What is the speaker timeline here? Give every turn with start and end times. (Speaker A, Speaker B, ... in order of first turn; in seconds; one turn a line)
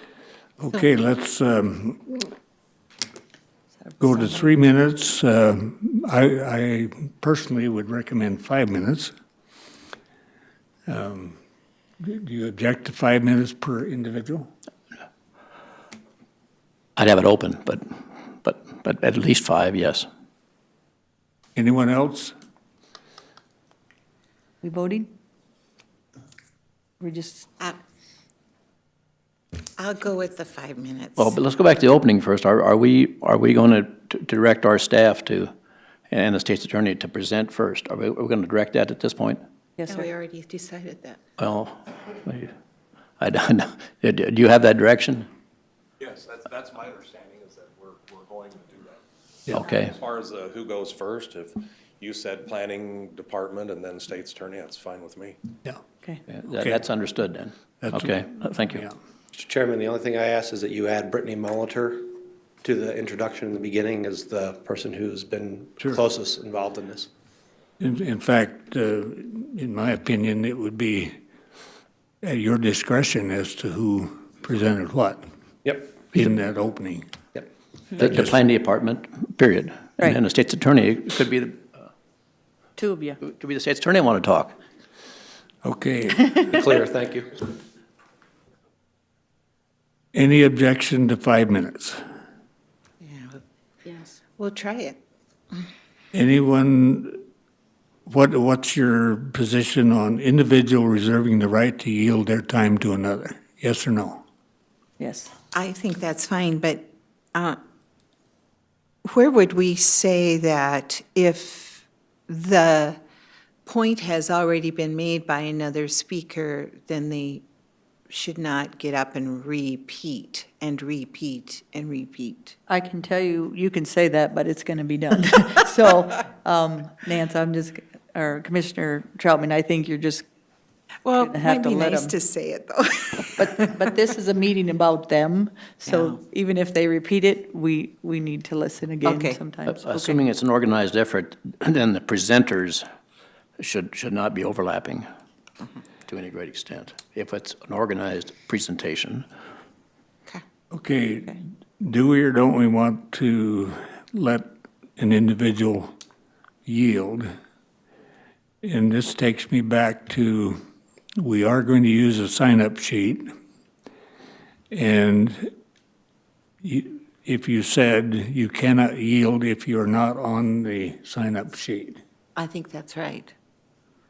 Speaker A: 0.6-2.3
Speaker B: 3.8-4.4
Speaker A: 4.0-9.1
Speaker A: 10.9-11.4
Speaker A: 12.0-14.5
Speaker C: 16.9-17.8
Speaker C: 18.4-20.1
Speaker A: 21.5-22.3
Speaker B: 24.6-25.1
Speaker B: 27.0-27.5
Speaker D: 29.8-31.3
Speaker C: 31.2-35.5
Speaker C: 36.1-39.4
Speaker B: 39.8-40.0
Speaker D: 39.9-41.2
Speaker C: 41.4-42.5
Speaker C: 43.2-45.3
Speaker E: 46.0-49.0
Speaker C: 49.5-50.0
Speaker E: 49.9-55.4
Speaker C: 56.3-58.9
Speaker A: 57.8-58.9
Speaker F: 59.3-67.1
Speaker A: 67.8-71.2
Speaker A: 72.2-75.2
Speaker A: 76.0-77.1
Speaker C: 77.9-81.6
Speaker B: 82.8-83.2
Speaker C: 83.2-84.6
Speaker A: 85.6-86.5
Speaker F: 86.3-87.5
Speaker A: 90.1-92.0
Speaker D: 93.0-95.0
Speaker A: 96.1-97.2
Speaker A: 98.1-104.2
Speaker B: 105.0-105.3
Speaker D: 105.5-107.6
Speaker D: 109.0-113.0
Speaker D: 113.7-117.4
Speaker D: 118.1-122.5
Speaker B: 122.7-130.2
Speaker D: 131.0-133.8
Speaker B: 131.2-132.1
Speaker B: 133.4-140.2
Speaker D: 135.9-136.2
Speaker D: 139.0-139.4
Speaker C: 139.7-142.8
Speaker C: 143.6-145.1
Speaker C: 146.1-149.2
Speaker A: 150.7-155.9
Speaker A: 156.7-157.3
Speaker A: 158.6-160.6
Speaker A: 161.2-163.3
Speaker A: 164.7-165.5
Speaker A: 166.6-172.0
Speaker D: 172.3-173.3